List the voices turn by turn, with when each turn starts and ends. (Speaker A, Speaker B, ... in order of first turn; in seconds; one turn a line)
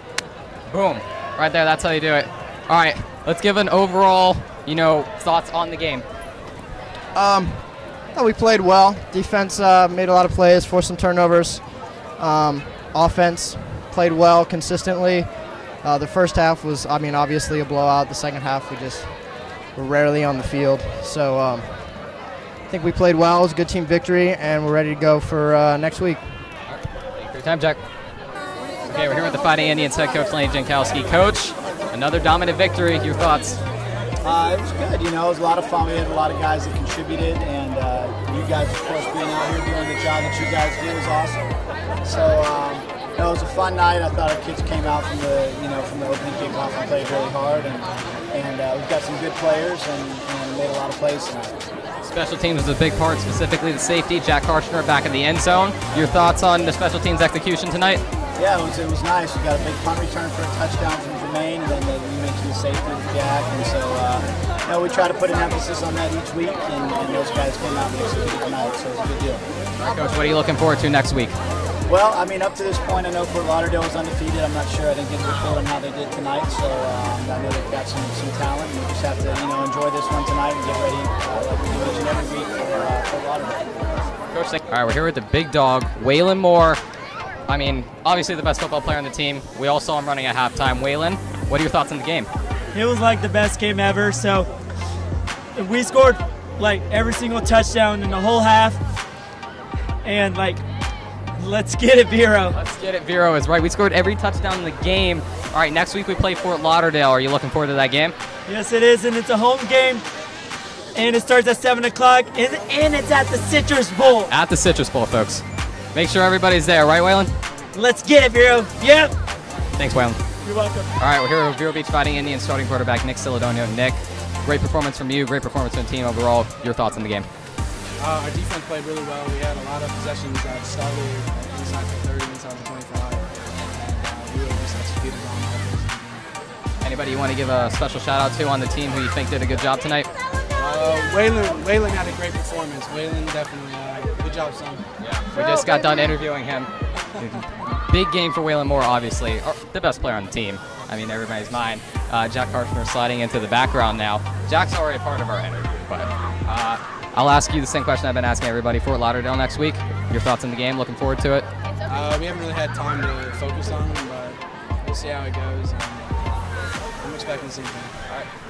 Speaker A: 0.7-6.0
Speaker B: 7.1-26.4
Speaker A: 26.7-27.8
Speaker A: 28.9-33.6
Speaker C: 34.2-51.6
Speaker A: 52.0-58.0
Speaker C: 58.4-69.4
Speaker A: 69.8-71.4
Speaker C: 71.9-83.7
Speaker A: 84.3-86.8
Speaker A: 87.5-92.3
Speaker D: 92.7-94.5
Speaker D: 95.5-98.8
Speaker D: 100.0-100.6
Speaker D: 101.4-102.5
Speaker A: 102.5-108.2
Speaker D: 108.5-110.0
Speaker D: 110.9-114.3
Speaker A: 114.3-117.3
Speaker D: 117.7-119.1
Speaker A: 119.8-120.2
Speaker D: 120.4-120.9
Speaker A: 121.0-127.3
Speaker E: 128.0-136.3
Speaker A: 136.8-140.1
Speaker E: 140.6-144.8
Speaker A: 145.0-161.5
Speaker E: 161.9-166.5
Speaker E: 167.0-167.9